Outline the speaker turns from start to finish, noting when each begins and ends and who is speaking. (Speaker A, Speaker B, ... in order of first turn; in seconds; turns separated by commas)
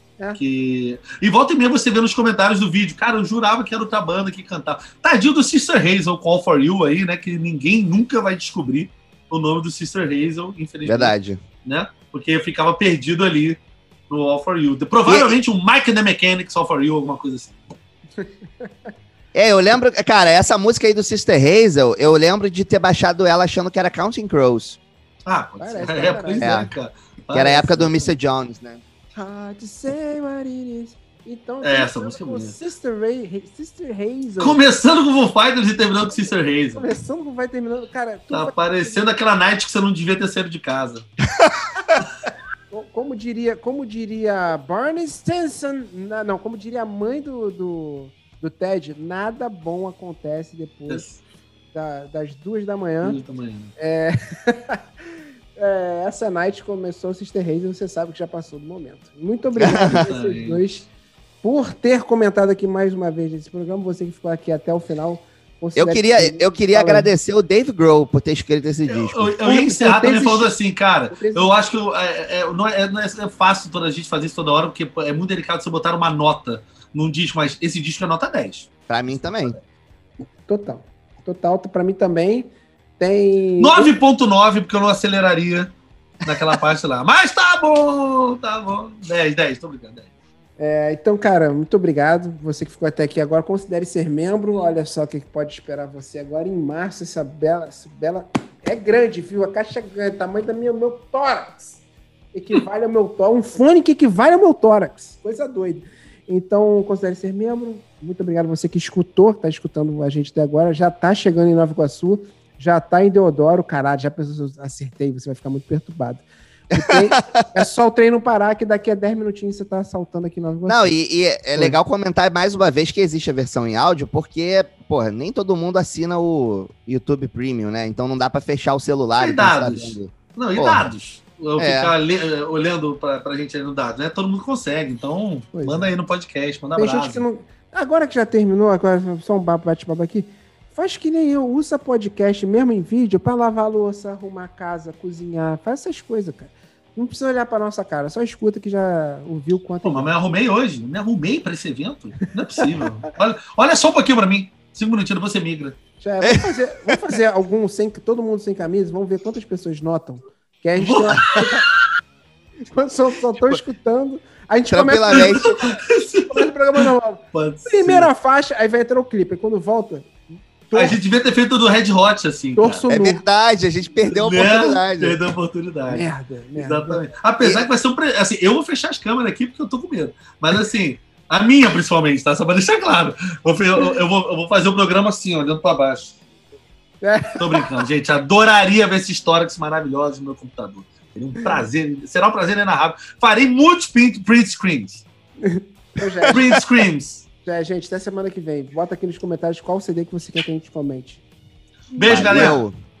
Speaker A: 0.3-17.6, Speaker B: 10.8-11.4, Speaker B: 15.1-15.4, Speaker C: 18.2-18.9, Speaker B: 19.3-24.8, Speaker A: 25.2-28.0, Speaker C: 25.6-26.7, Speaker B: 26.4-26.7, Speaker B: 27.3-28.8, Speaker C: 29.1-34.6, Speaker A: 31.6-32.6, Speaker A: 34.4-36.9, Speaker C: 36.8-39.0, Speaker A: 38.3-41.1, Speaker C: 42.7-51.0, Speaker A: 50.9-51.2, Speaker C: 51.7-53.2, Speaker A: 53.0-53.7, Speaker C: 53.8-54.8, Speaker C: 55.5-60.9, Speaker B: 59.6-60.0, Speaker A: 59.9-60.6, Speaker C: 61.4-67.1, Speaker B: 65.8-69.3, Speaker A: 68.9-78.7, Speaker C: 69.4-70.5, Speaker C: 71.1-71.5, Speaker B: 78.9-79.5, Speaker C: 80.5-83.9, Speaker A: 83.6-85.7, Speaker A: 86.2-90.1, Speaker C: 90.6-101.8, Speaker C: 102.3-120.9, Speaker B: 116.7-117.4, Speaker B: 120.7-130.9, Speaker A: 129.2-137.2, Speaker B: 131.6-131.9, Speaker C: 135.5-135.9, Speaker C: 136.8-150.1, Speaker A: 149.8-155.8, Speaker C: 156.0-161.6, Speaker B: 156.2-157.0, Speaker A: 160.8-161.7, Speaker C: 162.7-165.8, Speaker B: 164.7-165.5, Speaker A: 165.1-168.1, Speaker C: 166.3-171.0, Speaker A: 170.7-172.8, Speaker C: 172.6-173.2, Speaker B: 172.9-175.2, Speaker A: 174.1-176.0, Speaker C: 175.9-177.0, Speaker A: 176.6-186.2, Speaker B: 177.4-177.7, Speaker C: 187.0-187.7, Speaker A: 187.4-195.0, Speaker C: 195.4-196.4, Speaker B: 196.2-196.6, Speaker A: 196.3-197.2, Speaker C: 197.4-201.2, Speaker A: 201.9-202.7, Speaker C: 202.0-202.5, Speaker B: 202.0-202.7